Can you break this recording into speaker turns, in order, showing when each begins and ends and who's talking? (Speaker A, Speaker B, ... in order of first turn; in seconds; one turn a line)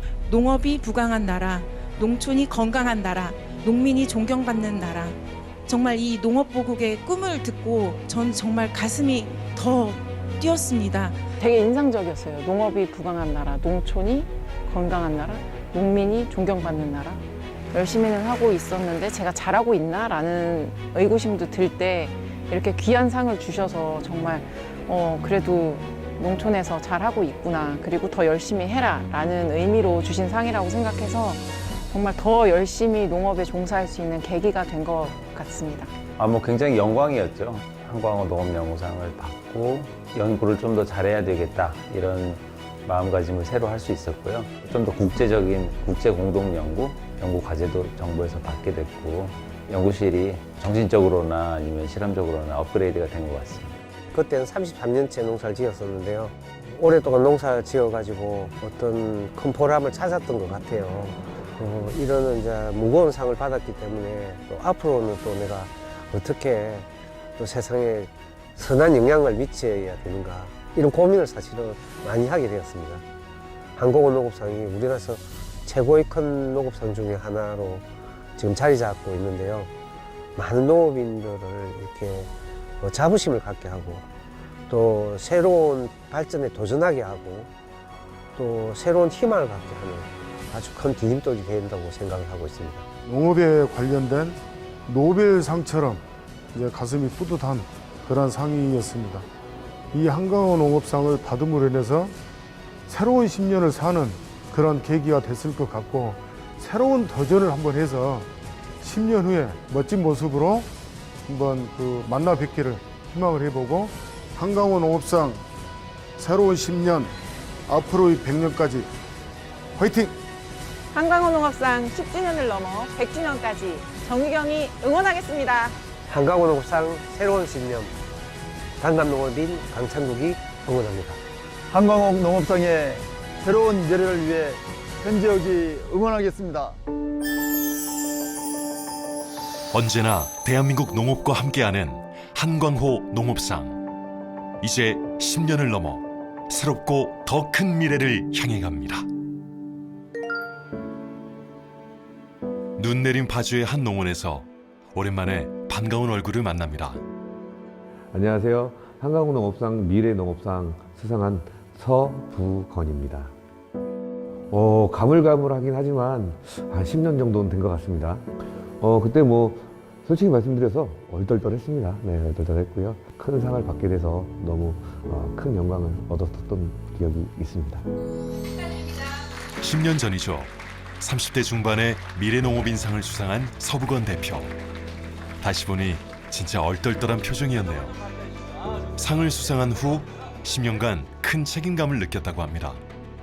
Speaker A: 0.3-11.2
Speaker B: 11.4-35.9
Speaker C: 36.2-53.8
Speaker D: 54.1-73.0
Speaker D: 73.8-79.7
Speaker D: 80.4-84.0
Speaker D: 84.7-87.5
Speaker D: 88.3-92.8
Speaker E: 93.1-96.0
Speaker E: 96.5-99.2
Speaker E: 99.9-102.1
Speaker E: 102.9-108.3
Speaker E: 108.8-110.7
Speaker E: 111.3-115.4
Speaker E: 116.2-117.1
Speaker E: 117.7-118.9
Speaker E: 119.8-120.1
Speaker B: 120.9-125.8
Speaker D: 126.1-127.9
Speaker D: 128.8-131.2
Speaker F: 131.7-136.8
Speaker G: 139.7-143.8
Speaker G: 144.6-149.1
Speaker G: 152.8-157.0
Speaker H: 158.1-163.3
Speaker H: 164.5-177.9
Speaker G: 179.6-184.6
Speaker G: 185.4-188.0
Speaker G: 189.0-192.8